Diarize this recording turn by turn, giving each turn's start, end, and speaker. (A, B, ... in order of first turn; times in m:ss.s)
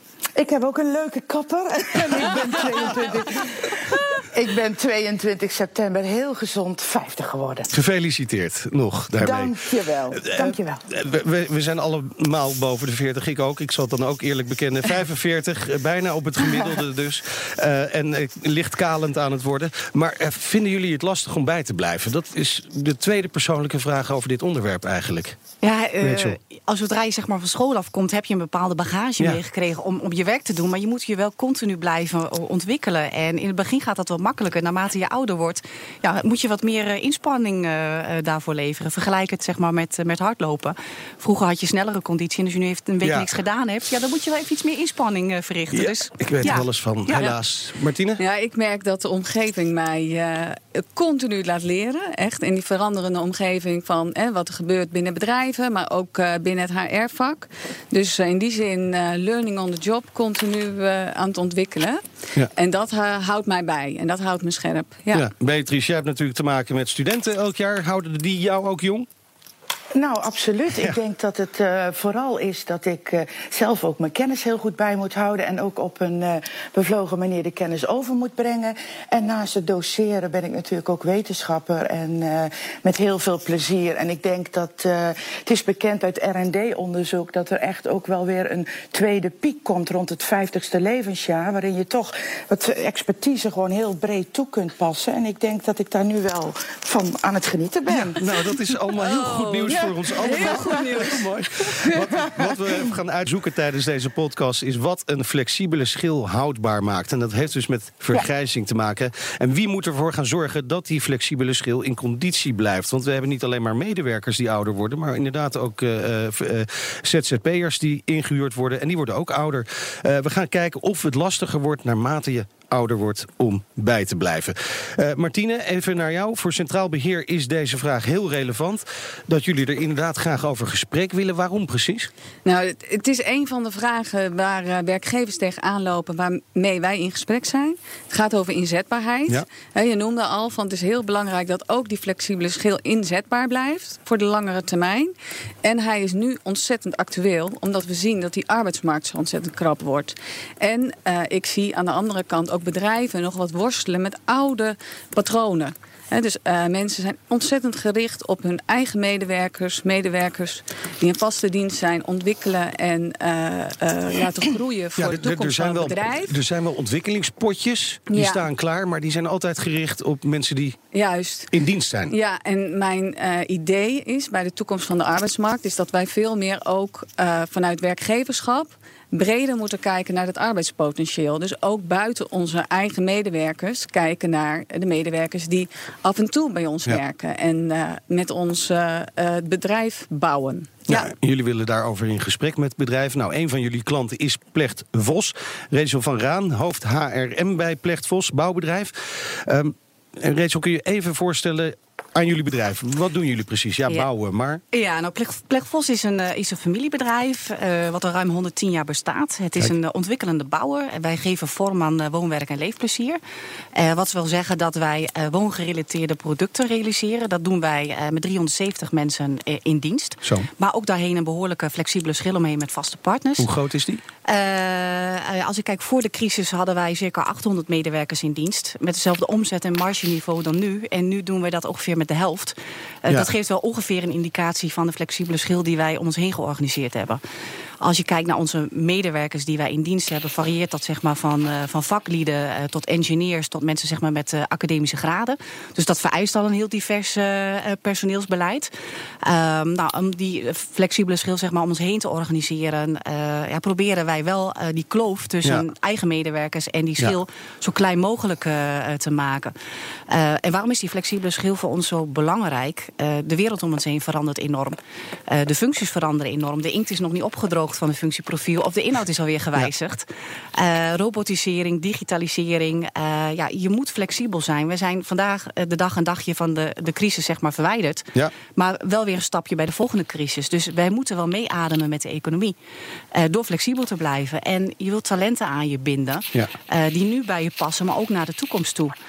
0:00.4-0:07.7 A
0:07.7-0:09.6 B
0:09.2-0:10.8 A
0:10.2-0:25.4 B
0:25.6-0:46.6 C
0:26.0-0:26.4 B
0:43.0-0:43.3 B
0:45.7-0:48.2 B
0:48.2-1:02.0 D
1:02.5-1:05.3 D
1:05.1-1:09.1 B
1:09.9-1:38.2 A
1:37.9-2:12.1 B
1:38.9-1:42.1 D
1:40.4-1:40.9 A
2:12.4-2:25.1 D
2:25.6-2:46.4 D
2:45.0-2:50.8 B
2:48.1-2:48.4 D
2:50.9-2:51.5 D
2:51.5-2:52.1 B
2:52.1-3:11.1 D
3:10.9-3:24.6 B
3:24.7-3:33.2 C
3:33.7-3:43.5 C
3:43.4-3:44.0 B
3:44.2-3:57.2 C
3:57.8-4:08.7 C
4:09.2-4:19.5 C
4:20.1-4:24.8 C
4:25.3-4:42.6 C
4:43.1-4:48.9 C